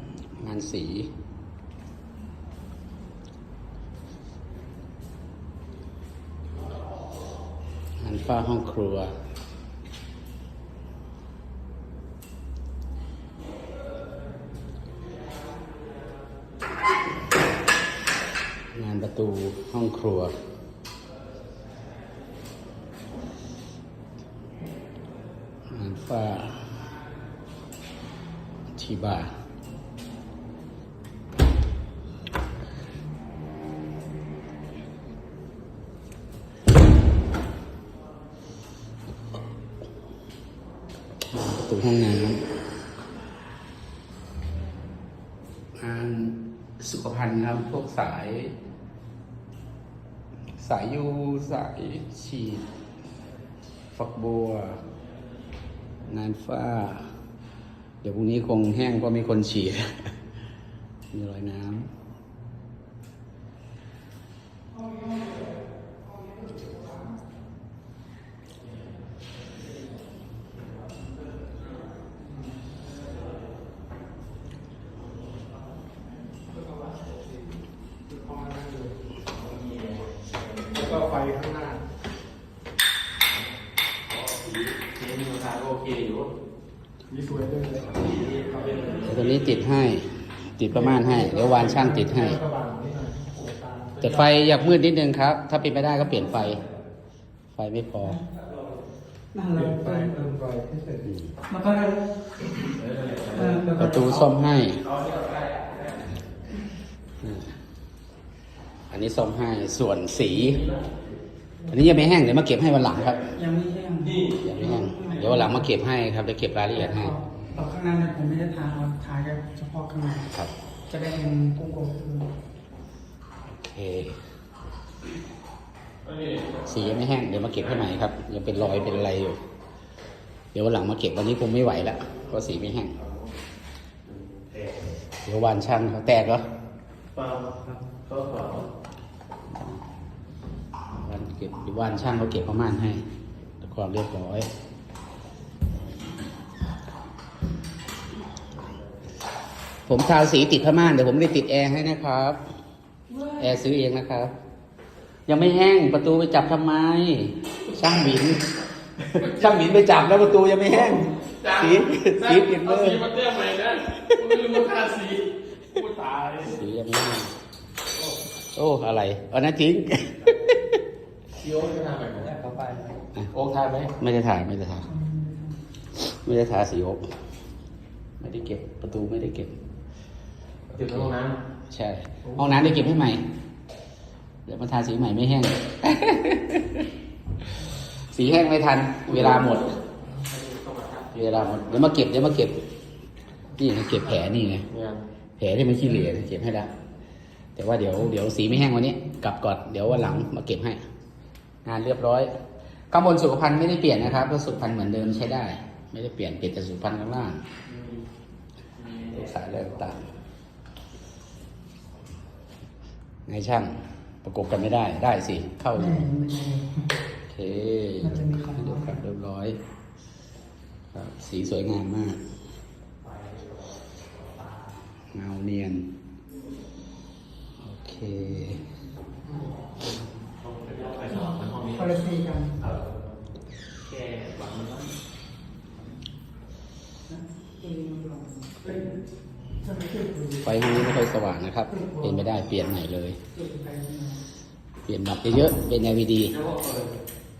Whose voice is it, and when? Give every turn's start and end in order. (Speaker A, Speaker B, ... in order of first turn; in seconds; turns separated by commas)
Speaker A: 0.3-1.1, Speaker A: 8.0-9.1, Speaker A: 18.7-20.3, Speaker A: 25.7-26.8, Speaker A: 28.7-29.3, Speaker A: 41.3-42.4, Speaker A: 45.8-48.5, Speaker A: 50.6-52.6, Speaker A: 54.0-54.8, Speaker A: 56.1-57.1, Speaker A: 58.0-60.1, Speaker A: 61.1-61.9, Speaker B: 78.1-81.8, Speaker B: 84.4-86.3, Speaker C: 87.1-87.7, Speaker B: 87.2-89.6, Speaker A: 89.0-92.4, Speaker C: 90.7-94.0, Speaker B: 92.5-94.3, Speaker A: 94.0-96.6, Speaker A: 97.5-98.2, Speaker D: 99.3-100.3, Speaker B: 99.9-100.8, Speaker C: 100.4-101.0, Speaker A: 101.0-101.3, Speaker D: 101.5-102.1, Speaker B: 102.6-103.6, Speaker D: 103.3-104.2, Speaker A: 103.7-104.9, Speaker B: 104.9-105.9, Speaker A: 107.2-107.5, Speaker A: 108.9-110.6, Speaker B: 110.5-110.8, Speaker A: 111.7-113.3, Speaker D: 113.3-115.7, Speaker A: 114.4-117.2, Speaker D: 116.8-120.3, Speaker D: 120.9-122.3, Speaker A: 123.5-124.2, Speaker B: 126.1-126.7, Speaker A: 126.7-129.4, Speaker A: 130.5-133.0, Speaker B: 134.1-134.8, Speaker A: 135.2-136.5, Speaker B: 137.1-138.7, Speaker A: 141.0-143.0, Speaker A: 143.6-144.5, Speaker A: 149.9-152.4, Speaker D: 153.1-153.4, Speaker A: 153.3-154.3, Speaker A: 155.3-158.5, Speaker A: 159.0-163.1, Speaker B: 159.1-159.7, Speaker B: 161.0-166.6, Speaker A: 164.0-164.4, Speaker A: 166.4-167.3, Speaker A: 168.6-170.7, Speaker B: 171.4-172.3, Speaker D: 172.3-173.0, Speaker B: 173.3-173.9, Speaker A: 173.9-174.9, Speaker D: 174.9-175.6, Speaker A: 175.9-177.1, Speaker A: 178.2-179.6, Speaker B: 180.7-181.4, Speaker A: 181.7-183.3, Speaker A: 184.5-186.9, Speaker A: 188.0-189.8, Speaker B: 189.1-192.0, Speaker A: 191.2-192.7, Speaker A: 193.6-194.7, Speaker B: 194.7-195.1, Speaker A: 195.4-196.7, Speaker A: 197.6-200.8, Speaker A: 201.7-202.3, Speaker A: 202.9-207.4, Speaker B: 207.6-208.1, Speaker B: 208.8-210.0, Speaker A: 209.1-210.1, Speaker A: 213.3-216.1, Speaker D: 215.8-216.9, Speaker A: 217.3-219.6, Speaker D: 218.0-219.0, Speaker A: 220.9-222.2, Speaker B: 223.0-224.7, Speaker A: 225.1-225.9, Speaker A: 227.6-228.7, Speaker B: 230.4-232.1, Speaker D: 231.1-232.6, Speaker B: 232.6-233.0, Speaker B: 233.8-235.0, Speaker D: 237.1-239.0, Speaker D: 239.6-240.8, Speaker A: 240.4-243.2, Speaker D: 241.8-242.1, Speaker D: 243.3-244.2, Speaker A: 244.9-246.4, Speaker B: 246.3-247.0